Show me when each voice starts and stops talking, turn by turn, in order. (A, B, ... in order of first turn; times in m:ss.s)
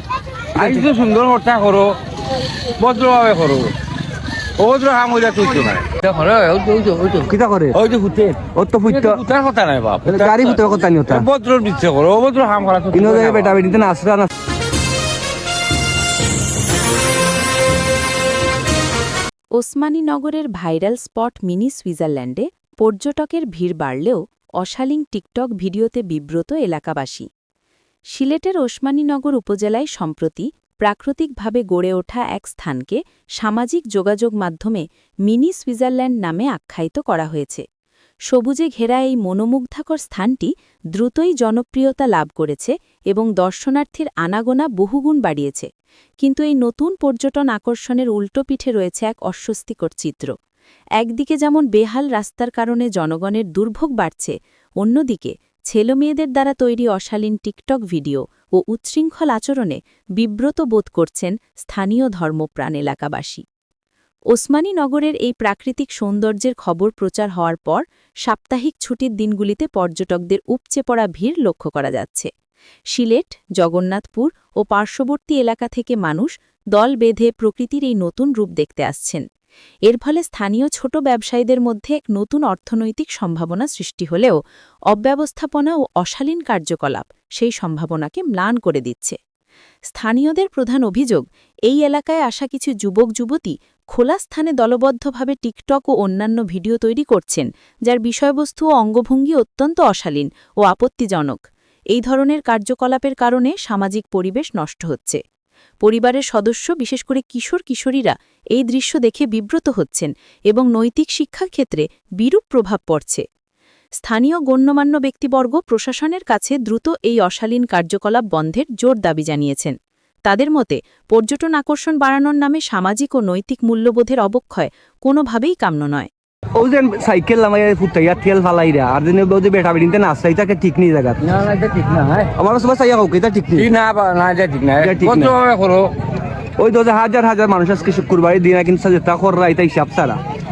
0:00.6-0:02.0 A
0:00.6-0:00.9 B
0:02.8-0:03.7 A
0:04.6-0:13.6 A
0:07.3-0:07.8 B
0:08.6-0:09.2 B
0:10.1-0:11.3 B
0:12.9-0:14.3 B
0:19.6-0:27.3 C
0:28.1-0:37.6 C
0:38.3-0:45.7 C
0:46.2-0:50.3 C
0:51.0-1:03.4 C
1:04.3-1:12.3 C
1:12.9-1:19.2 C
1:19.9-1:24.4 C
1:24.9-1:29.2 C
1:29.9-1:45.2 C
1:45.8-1:53.2 C
1:54.0-1:59.8 C
2:00.3-2:06.1 C
2:06.6-2:11.2 B
2:11.2-2:12.3 A
2:12.4-2:13.7 B
2:13.6-2:15.9 A
2:14.8-2:15.4 B
2:16.6-2:20.2 B